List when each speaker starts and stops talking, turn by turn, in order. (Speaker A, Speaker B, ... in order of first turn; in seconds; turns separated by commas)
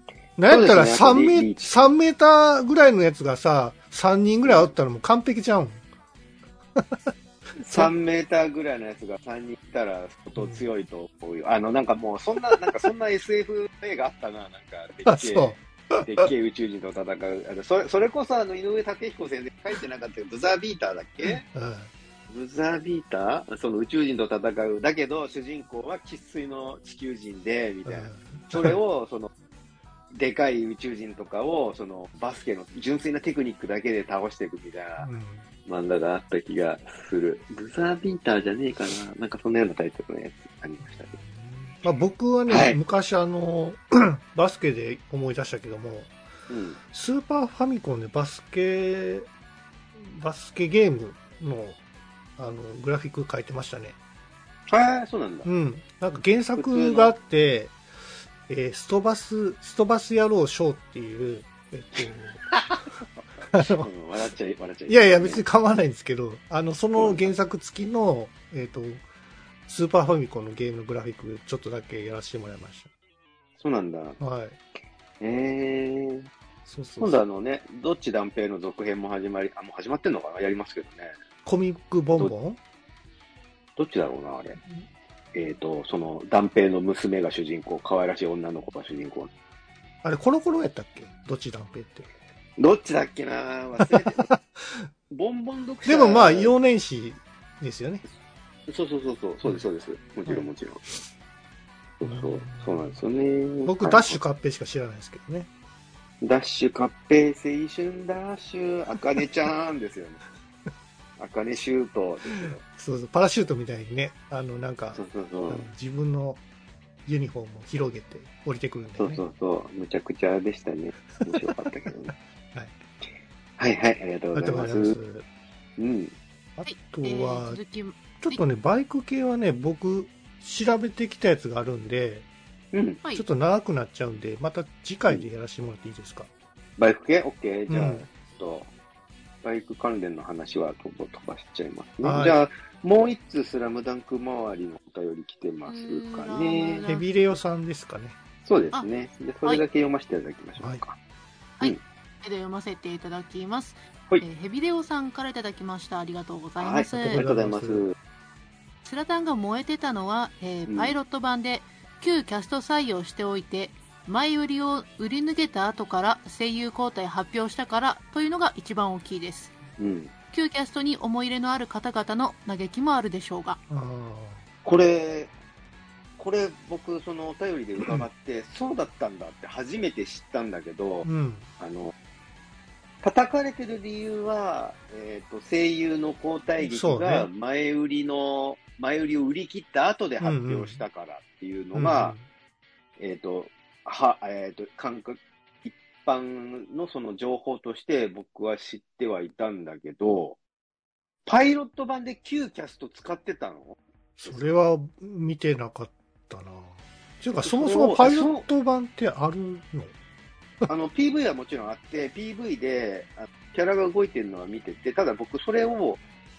Speaker A: 0.4-5.8, Speaker B: 0.5-1.9, Speaker B: 4.4-4.7, Speaker A: 6.8-7.9, Speaker B: 7.6-21.4, Speaker A: 10.4-10.6, Speaker A: 15.1-16.3, Speaker A: 21.2-21.9, Speaker B: 22.3-29.3, Speaker A: 27.9-28.8, Speaker B: 30.1-35.1, Speaker A: 35.0-35.4, Speaker B: 35.6-41.2, Speaker A: 40.9-46.1, Speaker B: 42.5-42.8, Speaker B: 46.5-46.8, Speaker A: 46.9-49.3, Speaker A: 50.0-51.8, Speaker A: 52.4-54.0, Speaker B: 54.7-55.5, Speaker A: 55.4-57.7, Speaker B: 56.5-57.1, Speaker A: 58.5-62.5, Speaker A: 63.5-63.9, Speaker B: 63.6-65.4, Speaker A: 64.9-69.0, Speaker B: 67.0-67.3, Speaker A: 69.7-72.9, Speaker B: 73.6-74.2, Speaker A: 74.2-74.6, Speaker B: 75.2-76.3, Speaker A: 76.7-77.2, Speaker B: 77.0-81.1, Speaker A: 81.4-82.6, Speaker B: 83.8-84.6, Speaker B: 85.3-89.3, Speaker A: 90.0-92.1, Speaker B: 92.6-94.3, Speaker A: 93.8-94.9, Speaker B: 95.1-96.5, Speaker A: 95.8-98.0, Speaker B: 98.7-100.8, Speaker B: 102.0-104.2, Speaker A: 102.0-102.9, Speaker A: 103.6-105.5, Speaker B: 106.2-110.2, Speaker B: 111.2-112.6, Speaker A: 112.7-116.4, Speaker B: 114.9-115.7, Speaker A: 117.0-119.2, Speaker B: 119.0-122.1, Speaker B: 123.6-125.0, Speaker A: 124.3-125.2, Speaker B: 125.8-126.2, Speaker A: 126.6-127.6, Speaker C: 126.6-128.4, Speaker A: 128.2-132.2, Speaker B: 132.7-133.0, Speaker A: 133.1-136.3, Speaker B: 136.8-138.7, Speaker A: 137.7-138.1, Speaker B: 139.4-146.8, Speaker A: 142.0-142.4, Speaker C: 145.7-147.0, Speaker A: 146.8-148.2, Speaker B: 148.4-151.0, Speaker C: 151.6-157.2, Speaker B: 156.6-157.9, Speaker A: 156.9-157.8, Speaker C: 158.8-169.5, Speaker B: 160.7-160.9, Speaker B: 169.8-170.1, Speaker C: 170.3-173.6, Speaker A: 173.7-174.4, Speaker B: 174.6-175.3, Speaker B: 176.2-181.1, Speaker A: 181.0-181.5, Speaker B: 181.6-181.9, Speaker B: 183.0-192.2, Speaker A: 186.6-187.3, Speaker A: 190.2-190.8, Speaker A: 191.7-192.2, Speaker B: 193.0-200.4, Speaker B: 201.2-204.6, Speaker A: 204.2-209.9, Speaker B: 207.4-208.5, Speaker B: 210.7-216.0